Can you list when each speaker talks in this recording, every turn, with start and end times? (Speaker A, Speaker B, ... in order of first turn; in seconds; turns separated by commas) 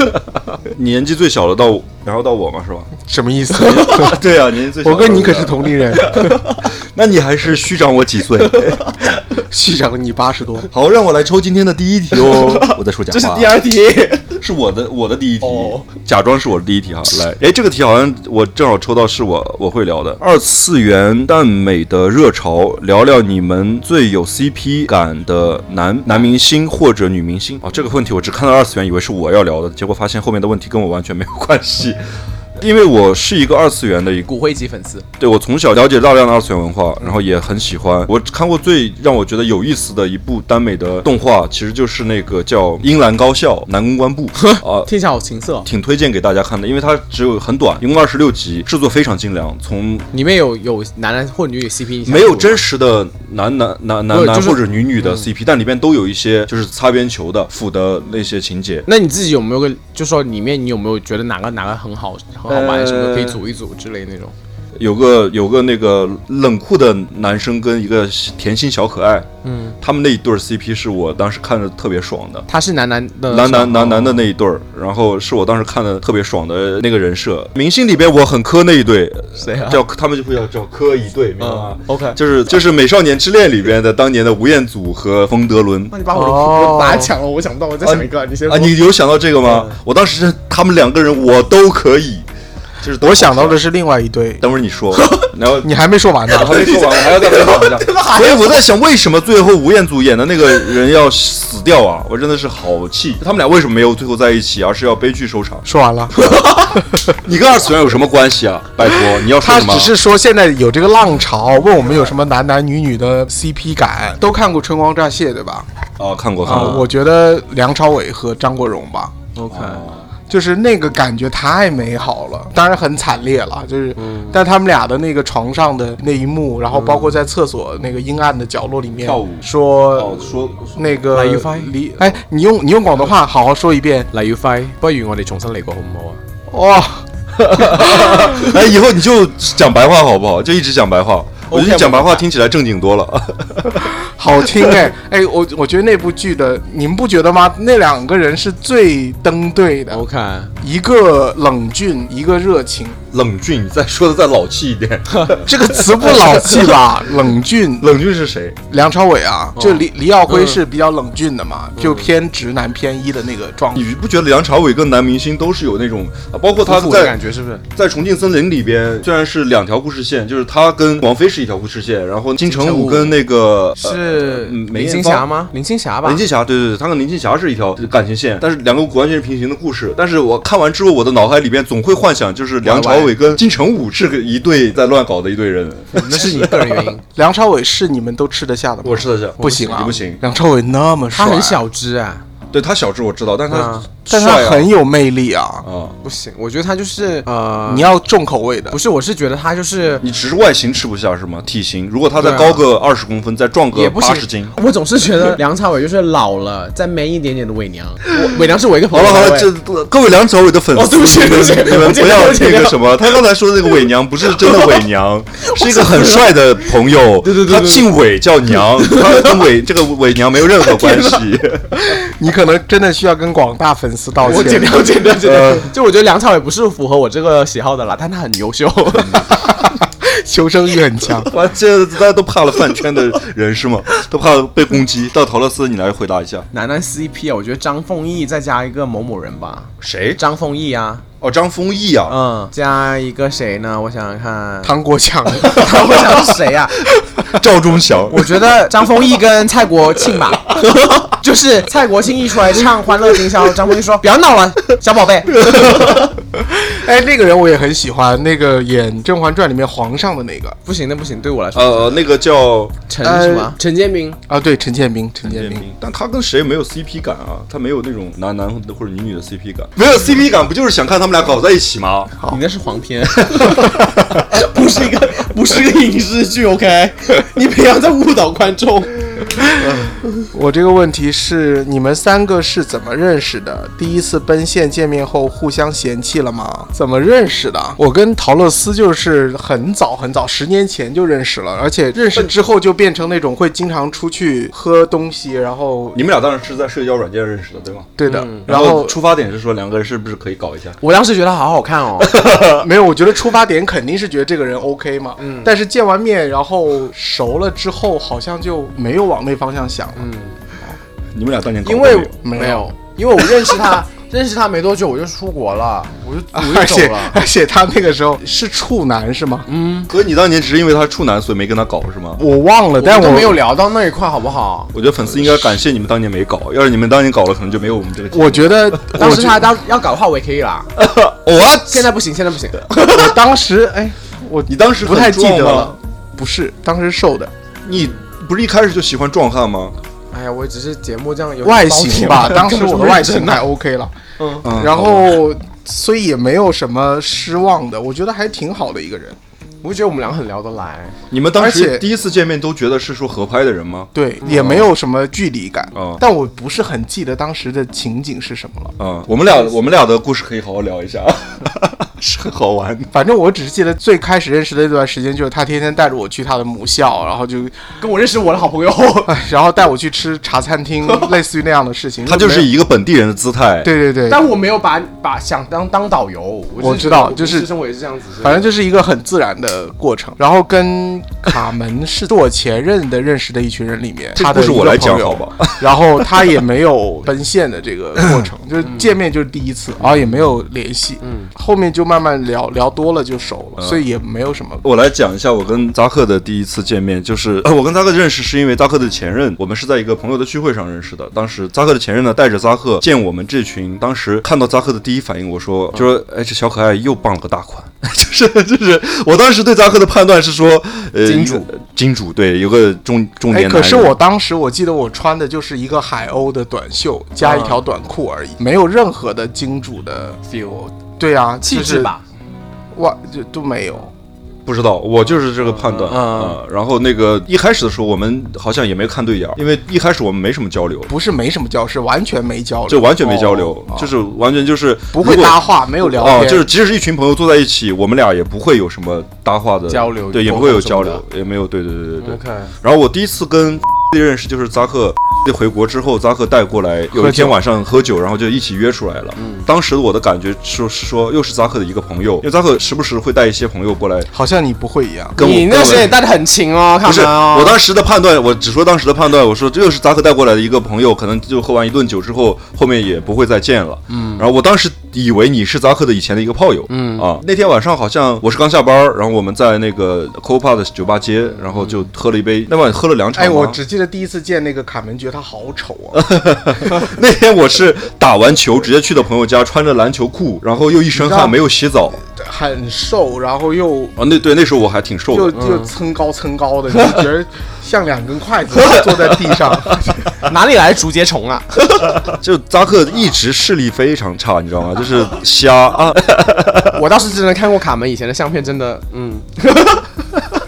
Speaker A: 0.6-2.9, Speaker B: 3.0-4.2, Speaker C: 3.6-4.1, Speaker A: 3.8-8.8, Speaker B: 4.8-6.4, Speaker C: 8.5-8.9, Speaker B: 9.5-10.7, Speaker A: 10.7-13.6, Speaker C: 12.1-14.3, Speaker A: 14.4-32.0, Speaker C: 15.4-15.9, Speaker A: 32.6-34.3, Speaker C: 34.2-35.0, Speaker A: 35.2-44.9, Speaker C: 44.4-45.7, Speaker A: 45.6-50.1, Speaker C: 50.1-52.6, Speaker A: 52.0-58.9, Speaker C: 54.1-55.3, Speaker C: 58.9-64.3, Speaker A: 62.5-63.4, Speaker A: 64.8-69.3, Speaker C: 69.4-69.8, Speaker A: 69.8-72.5, Speaker C: 72.5-74.3, Speaker A: 73.3-85.9, Speaker C: 79.4-79.8, Speaker C: 81.4-82.2, Speaker C: 85.9-88.8, Speaker B: 86.1-87.1, Speaker A: 87.8-92.3, Speaker C: 89.4-89.8, Speaker A: 92.8-93.6, Speaker B: 93.0-94.4, Speaker A: 94.4-95.7, Speaker C: 94.9-95.3, Speaker B: 95.6-96.6, Speaker A: 96.3-105.6, Speaker C: 96.3-98.6, Speaker B: 105.6-106.2, Speaker C: 106.1-106.8, Speaker A: 107.1-109.9, Speaker B: 108.8-115.7, Speaker A: 116.0-116.9, Speaker B: 116.4-119.1, Speaker C: 119.3-119.8, Speaker A: 119.5-120.1, Speaker B: 120.3-130.2, Speaker C: 124.0-124.4, Speaker C: 126.7-127.2, Speaker A: 129.0-131.0, Speaker B: 130.8-134.1, Speaker C: 131.1-131.7, Speaker C: 134.1-136.2, Speaker B: 136.5-137.1, Speaker A: 137.4-143.9, Speaker B: 137.6-138.2, Speaker C: 141.5-142.2, Speaker B: 144.0-150.0, Speaker C: 149.9-150.5, Speaker B: 150.6-153.0, Speaker A: 153.1-156.6, Speaker C: 155.1-155.4, Speaker B: 155.4-157.9, Speaker A: 157.8-158.6, Speaker B: 158.7-163.8, Speaker C: 159.6-160.6, Speaker C: 161.8-162.1, Speaker A: 163.7-167.2, Speaker C: 166.6-167.6, Speaker A: 167.7-175.3, Speaker C: 172.4-173.2, Speaker C: 173.8-176.2, Speaker A: 176.0-186.9, Speaker C: 182.6-183.2, Speaker C: 185.9-187.0, Speaker B: 187.1-191.6, Speaker A: 188.8-190.2, Speaker C: 189.4-189.8, Speaker C: 191.1-192.2, Speaker A: 192.5-194.7, Speaker C: 193.5-193.9, Speaker B: 194.1-195.7, Speaker A: 195.6-195.9, Speaker C: 196.0-197.9, Speaker B: 197.7-198.8, Speaker C: 198.7-200.0, Speaker A: 200.0-204.6, Speaker C: 202.2-202.6, Speaker C: 203.7-209.5, Speaker A: 208.9-222.0, Speaker C: 210.7-212.9, Speaker C: 214.4-214.8, Speaker C: 215.4-216.4, Speaker C: 217.2-217.9, Speaker C: 218.8-219.4, Speaker C: 220.6-221.2, Speaker B: 221.8-224.8, Speaker C: 224.2-229.3, Speaker A: 225.2-225.7, Speaker A: 228.9-229.2, Speaker B: 229.6-231.3, Speaker A: 231.2-236.5, Speaker C: 236.5-241.0, Speaker A: 239.8-240.2, Speaker A: 241.2-242.2, Speaker C: 242.1-244.8, Speaker B: 244.6-245.7, Speaker C: 245.4-246.8, Speaker A: 247.2-248.4, Speaker C: 248.1-255.9, Speaker B: 256.4-260.6, Speaker C: 260.6-262.0, Speaker A: 261.5-262.8, Speaker C: 262.9-264.2, Speaker B: 263.0-263.5, Speaker B: 264.3-265.6, Speaker A: 265.2-272.1, Speaker C: 272.2-279.2, Speaker A: 273.3-273.8, Speaker B: 280.3-296.0, Speaker A: 295.9-297.9, Speaker B: 298.0-298.9, Speaker C: 298.1-298.5, Speaker A: 298.5-300.8, Speaker C: 300.8-302.1, Speaker A: 302.0-302.6, Speaker B: 302.4-310.1, Speaker C: 305.2-305.5, Speaker C: 309.9-310.4, Speaker A: 311.1-312.1, Speaker C: 311.6-317.2, Speaker B: 312.2-312.7, Speaker B: 316.3-319.4, Speaker C: 319.5-319.9, Speaker A: 319.9-322.2, Speaker B: 322.2-323.4, Speaker C: 322.8-324.7, Speaker A: 324.7-329.3, Speaker B: 328.1-329.4, Speaker C: 328.9-330.7, Speaker A: 330.8-331.9, Speaker C: 331.6-333.1, Speaker B: 332.9-337.3, Speaker A: 334.5-335.8, Speaker A: 337.6-339.7, Speaker C: 340.1-343.4, Speaker B: 341.4-343.9, Speaker A: 344.4-345.2, Speaker B: 344.4-349.2, Speaker C: 349.6-350.9, Speaker A: 351.1-354.7, Speaker B: 351.3-351.9, Speaker B: 353.9-358.7, Speaker A: 355.7-356.0, Speaker A: 358.8-362.9, Speaker C: 359.2-359.5, Speaker B: 362.9-367.6, Speaker C: 367.8-369.1, Speaker B: 369.1-372.5, Speaker A: 372.1-373.7, Speaker B: 373.6-374.2, Speaker C: 374.1-378.5, Speaker B: 376.6-377.5, Speaker B: 378.2-394.6, Speaker A: 384.1-385.8, Speaker C: 388.6-388.9, Speaker C: 391.0-391.3, Speaker A: 393.6-393.8, Speaker A: 394.6-413.9, Speaker C: 411.0-411.5, Speaker B: 413.3-420.2, Speaker C: 417.2-417.6, Speaker C: 420.2-420.7, Speaker B: 421.0-421.9, Speaker C: 421.4-422.0, Speaker B: 422.7-423.9, Speaker A: 424.4-430.9, Speaker C: 425.4-426.4, Speaker B: 430.9-433.9, Speaker A: 432.7-454.1, Speaker B: 434.9-436.5, Speaker C: 439.7-441.0, Speaker C: 442.0-442.5, Speaker B: 446.9-447.4, Speaker C: 449.2-449.4, Speaker B: 454.1-455.2, Speaker A: 455.1-456.0, Speaker C: 455.2-457.6, Speaker A: 456.8-473.6, Speaker C: 463.9-464.2, Speaker C: 466.7-467.1, Speaker C: 471.5-471.8, Speaker B: 473.1-476.0, Speaker A: 475.9-482.0, Speaker B: 480.9-481.4, Speaker B: 482.0-483.9, Speaker A: 484.0-485.4, Speaker B: 485.1-490.1, Speaker C: 485.3-485.7, Speaker A: 488.7-489.0, Speaker C: 490.2-491.8, Speaker A: 492.0-496.8, Speaker C: 496.7-499.9